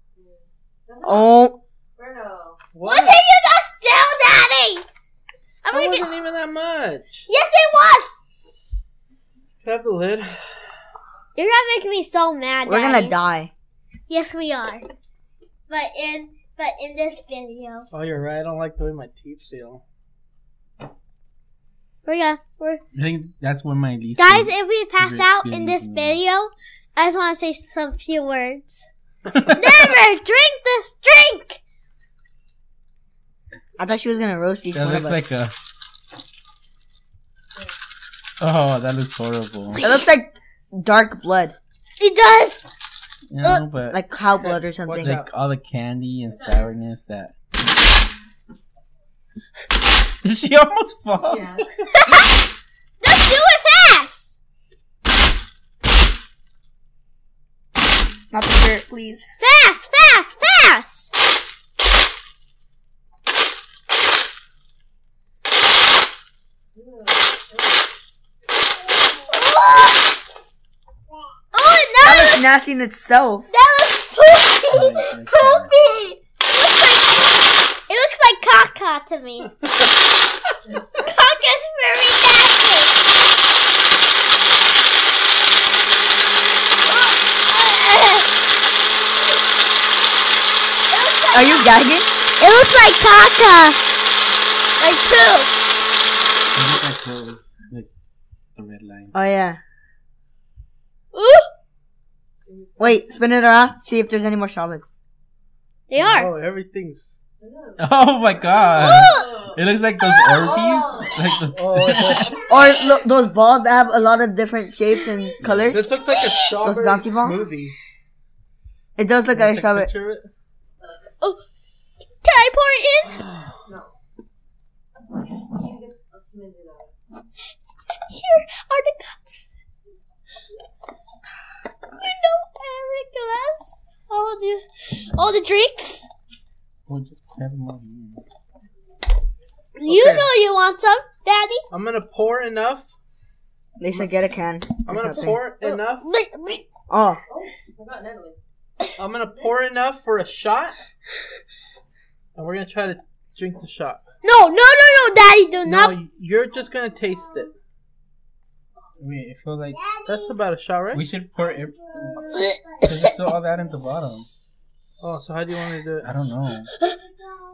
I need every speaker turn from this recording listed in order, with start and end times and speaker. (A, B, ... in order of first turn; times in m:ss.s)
0:00.2-0:01.4 A
0:01.0-0:01.6 B
0:02.0-0:02.6 A
0:02.7-0:03.2 C
0:02.8-0:04.8 D
0:05.6-0:06.1 D
0:05.7-0:07.3 C
0:07.3-0:08.2 D
0:09.6-0:10.5 C
0:11.4-0:13.1 D
0:12.7-0:13.5 B
0:14.1-0:14.8 D
0:15.7-0:17.9 D
0:17.9-0:19.8 C
0:22.0-0:22.8 D
0:22.9-0:26.2 E
0:24.2-0:28.9 D
0:29.4-0:29.8 E
0:29.5-0:31.6 D
0:33.8-0:35.2 B
0:34.7-0:35.5 E
0:37.5-0:37.8 A
0:38.4-0:39.8 E
0:39.8-0:41.6 B
0:42.0-0:42.7 D
0:43.3-0:44.0 E
0:43.9-0:45.2 B
0:44.4-0:45.3 C
0:45.0-0:47.3 E
0:46.3-0:46.7 A
0:50.2-0:51.5 E
0:51.2-0:51.7 A
0:51.9-0:52.3 D
0:53.0-0:54.3 D
0:58.3-0:59.2 B
0:59.4-1:01.1 D
1:06.7-1:07.8 A
1:09.3-1:10.1 D
1:11.5-1:12.4 D
1:12.0-1:13.5 B
1:13.5-1:19.6 D
1:14.7-1:15.7 E
1:20.7-1:21.0 A
1:21.0-1:23.0 D
1:26.8-1:28.3 D
1:30.9-1:31.7 D
1:31.3-1:32.1 B
1:32.4-1:33.8 D
1:34.8-1:35.5 D
1:36.6-1:37.9 E
1:38.6-1:39.1 E
1:39.1-1:39.6 B
1:41.1-1:41.5 D
1:42.4-1:43.2 A
1:42.8-1:44.8 B
1:45.9-1:46.3 D
1:46.0-1:47.1 C
1:47.4-1:47.9 A
1:47.8-1:52.4 E
1:48.5-1:49.3 D
1:48.8-1:49.6 A
1:50.0-1:50.5 D
1:50.2-1:51.4 A
1:51.5-1:52.3 C
1:52.3-1:52.8 D
1:52.5-1:55.9 B
1:55.4-1:55.8 E
1:55.7-1:57.7 C
1:56.1-1:56.4 D
1:56.6-1:57.4 B
1:59.0-1:59.9 B
1:59.3-2:00.3 C
2:02.2-2:03.2 D
2:03.7-2:03.9 A
2:05.4-2:06.9 A
2:08.1-2:09.5 D
2:12.0-2:16.1 D
2:16.9-2:18.2 E
2:19.8-2:21.6 D
2:19.8-2:20.3 C
2:21.7-2:22.9 C
2:23.8-2:25.4 B
2:24.9-2:26.1 C
2:25.0-2:26.6 D
2:26.9-2:27.2 B
2:27.3-2:28.4 A
2:29.0-2:30.8 C
2:32.4-2:34.0 C
2:34.2-2:36.0 D
2:35.7-2:37.5 C
2:39.0-2:39.8 E
2:39.8-2:40.3 D
2:40.1-2:41.0 C
2:40.9-2:44.3 E
2:42.2-2:43.1 D
2:45.0-2:46.1 C
2:46.0-2:46.7 E
2:46.7-2:47.0 D